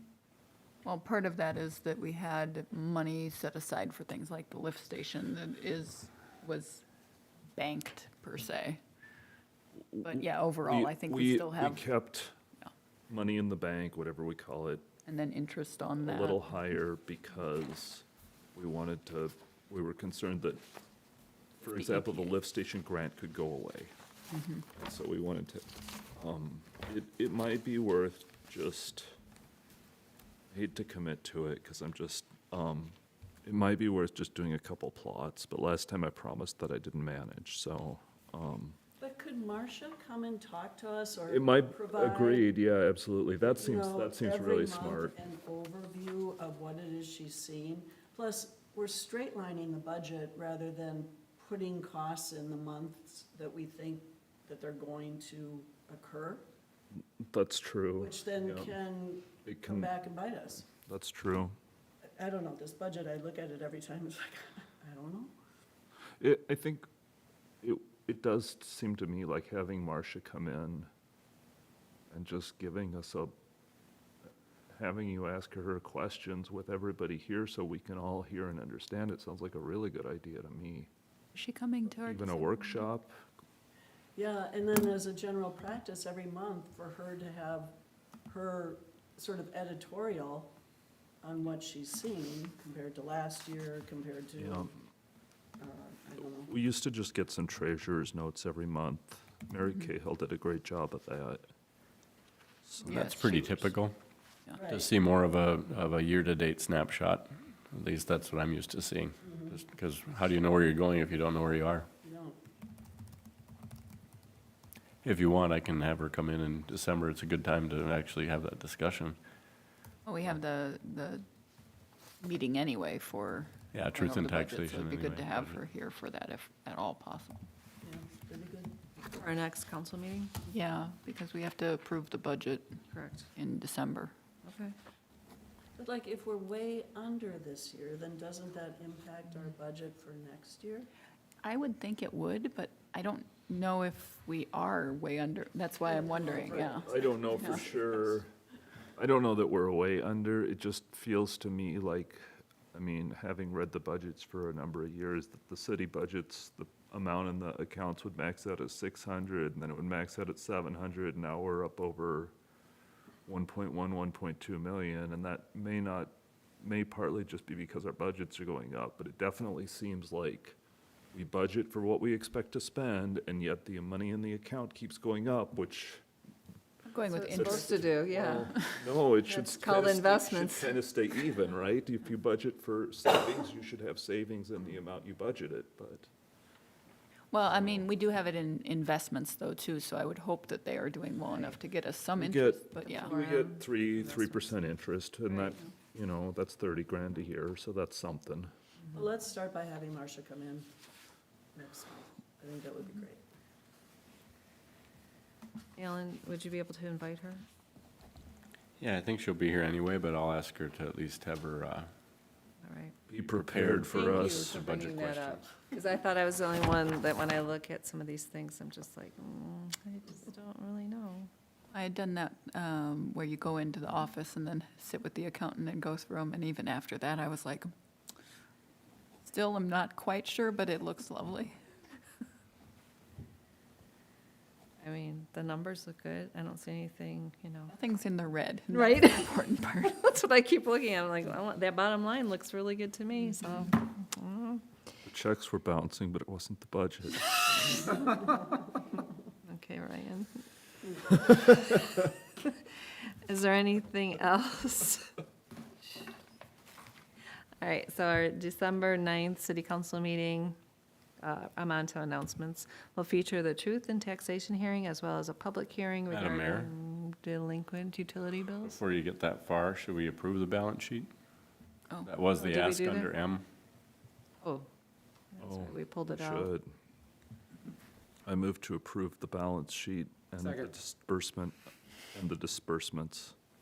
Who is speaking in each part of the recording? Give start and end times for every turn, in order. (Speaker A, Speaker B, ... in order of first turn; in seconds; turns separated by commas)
Speaker A: 0.8-6.8, Speaker A: 7.5-8.8, Speaker B: 9.9-12.4, Speaker A: 10.0-11.9, Speaker B: 13.1-14.8, Speaker A: 15.0-16.5, Speaker B: 16.0-20.6, Speaker B: 21.6-23.9, Speaker A: 24.3-24.6, Speaker B: 24.7-29.1, Speaker B: 30.5-38.8, Speaker C: 39.0-42.5, Speaker B: 41.3-45.1, Speaker C: 43.4-56.4, Speaker B: 57.2-58.7, Speaker C: 58.0-60.7, Speaker B: 59.4-59.9, Speaker B: 60.8-61.5, Speaker C: 62.1-65.3, Speaker B: 66.2-66.9, Speaker B: 67.6-70.9, Speaker B: 72.1-73.3, Speaker B: 74.7-80.9, Speaker A: 81.3-82.8, Speaker B: 82.0-83.2, Speaker C: 84.2-87.7, Speaker C: 88.3-90.5, Speaker C: 91.2-94.7, Speaker B: 94.4-94.7, Speaker C: 95.6-96.5, Speaker B: 96.4-101.4, Speaker B: 102.6-103.4, Speaker A: 102.8-103.6, Speaker D: 102.9-103.9, Speaker C: 104.6-104.9, Speaker D: 104.6-111.9, Speaker C: 109.2-109.6, Speaker C: 112.0-112.4, Speaker D: 115.0-119.2, Speaker A: 120.0-121.2, Speaker A: 122.2-127.5, Speaker D: 123.7-125.6, Speaker C: 127.8-128.7, Speaker E: 129.0-130.3, Speaker A: 130.4-132.8, Speaker E: 132.9-133.3, Speaker A: 133.3-134.1, Speaker E: 134.4-134.7, Speaker C: 135.8-140.9, Speaker A: 141.4-147.6, Speaker C: 145.8-147.9, Speaker B: 146.8-148.3, Speaker B: 149.0-162.3, Speaker B: 163.3-170.6, Speaker B: 171.1-176.0, Speaker A: 176.9-177.9, Speaker E: 177.1-178.5, Speaker B: 177.3-186.1, Speaker A: 178.4-178.8, Speaker E: 179.2-180.8, Speaker A: 187.3-193.2, Speaker B: 192.2-198.5, Speaker E: 192.8-194.5, Speaker E: 195.3-195.6, Speaker C: 198.9-200.7, Speaker C: 201.5-203.2, Speaker E: 205.8-207.4, Speaker D: 208.8-211.9, Speaker E: 212.6-212.9, Speaker B: 213.1-214.6, Speaker D: 213.3-215.5, Speaker E: 213.9-221.3, Speaker A: 221.7-227.7, Speaker A: 229.2-231.6, Speaker E: 234.8-237.7, Speaker A: 237.7-240.0, Speaker E: 238.7-244.6, Speaker B: 245.0-248.0, Speaker E: 249.4-250.4, Speaker E: 251.2-255.1, Speaker E: 257.6-260.6, Speaker E: 261.2-268.8, Speaker D: 266.1-266.7, Speaker D: 268.7-271.1, Speaker D: 272.0-273.4, Speaker E: 272.4-273.1, Speaker E: 274.4-274.7, Speaker E: 275.3-276.5, Speaker B: 275.4-276.7, Speaker B: 278.2-281.6, Speaker B: 282.1-283.3